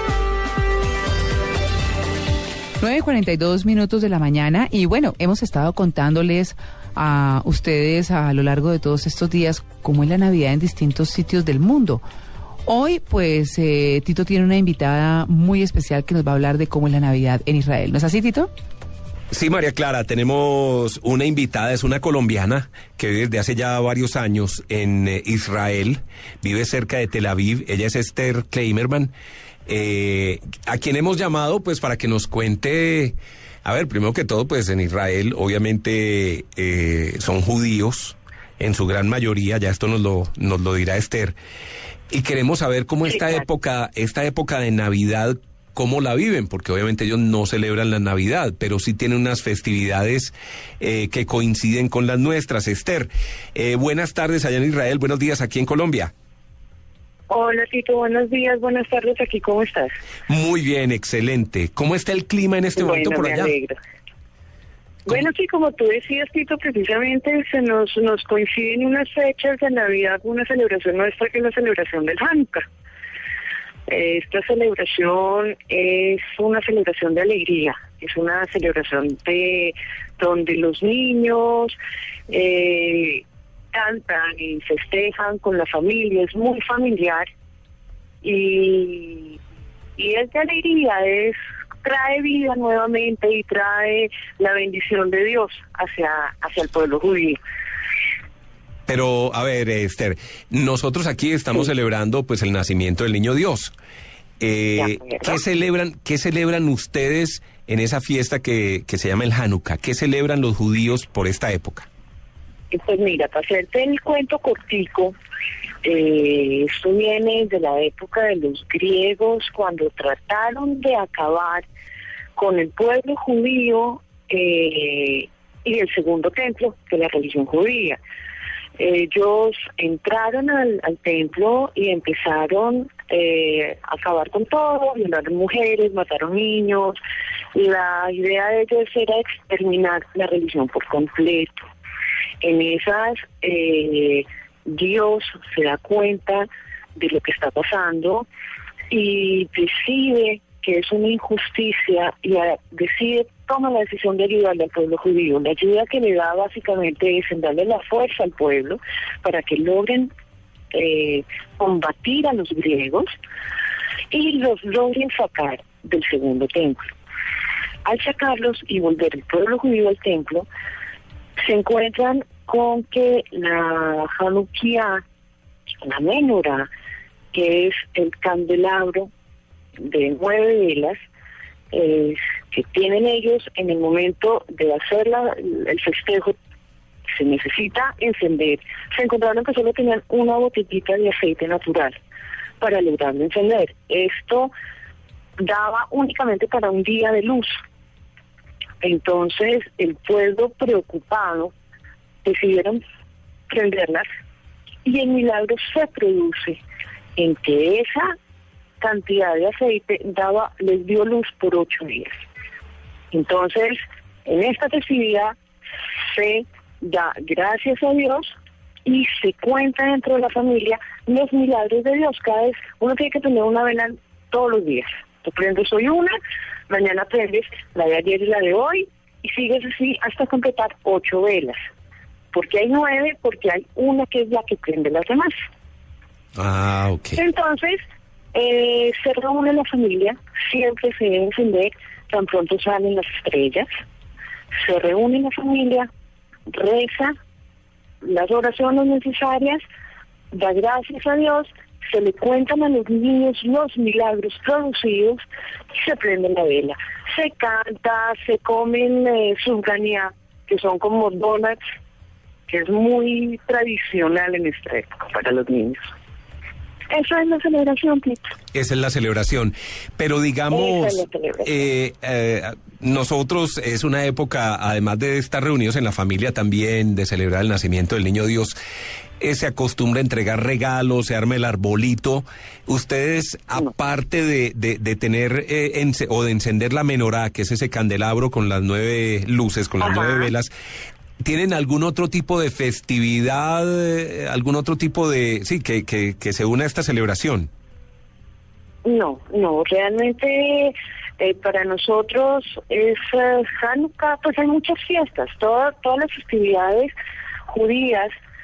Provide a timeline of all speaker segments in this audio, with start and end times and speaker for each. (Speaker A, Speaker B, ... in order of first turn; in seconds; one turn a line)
Speaker A: 2.8-12.0
Speaker A: 12.7-18.5
Speaker B: 19.3-29.1
Speaker B: 29.7-41.4
Speaker B: 42.1-56.1
Speaker C: 43.1-43.4
Speaker C: 57.3-60.0
Speaker B: 60.3-63.5
Speaker C: 62.8-63.7
Speaker C: 65.1-72.7
Speaker C: 73.9-81.8
Speaker C: 82.3-87.3
Speaker C: 88.2-89.4
Speaker C: 90.0-97.4
Speaker B: 98.9-103.7
Speaker B: 104.4-111.9
Speaker C: 104.8-105.4
Speaker C: 112.7-115.1
Speaker C: 115.8-121.7
Speaker C: 122.3-128.0
Speaker C: 128.8-137.0
Speaker C: 137.5-141.7
Speaker C: 142.4-148.3
Speaker C: 148.9-160.1
Speaker C: 160.7-163.2
Speaker C: 164.1-166.9
Speaker C: 167.8-170.5
Speaker C: 171.4-175.0
Speaker C: 175.8-176.7
Speaker C: 177.3-179.1
Speaker C: 179.8-181.0
Speaker C: 181.7-186.3
Speaker C: 187.1-192.0
Speaker C: 192.6-194.5
Speaker C: 195.4-197.6
Speaker C: 198.8-201.5
Speaker C: 202.2-202.8
Speaker C: 203.5-204.1
Speaker C: 204.8-206.6
Speaker C: 207.2-208.1
Speaker C: 208.8-212.1
Speaker C: 213.1-215.3
Speaker C: 216.0-226.2
Speaker C: 226.7-231.6
Speaker C: 232.3-235.3
Speaker B: 236.4-237.2
Speaker C: 237.2-237.8
Speaker C: 238.3-243.7
Speaker C: 244.6-245.9
Speaker C: 246.5-247.2
Speaker C: 248.0-249.6
Speaker C: 250.3-261.6
Speaker C: 262.5-265.9
Speaker C: 266.9-268.3
Speaker B: 268.5-278.6
Speaker C: 270.5-271.6
Speaker B: 279.2-290.5
Speaker C: 289.8-290.3
Speaker B: 291.2-297.5
Speaker C: 298.9-306.9
Speaker C: 307.5-308.1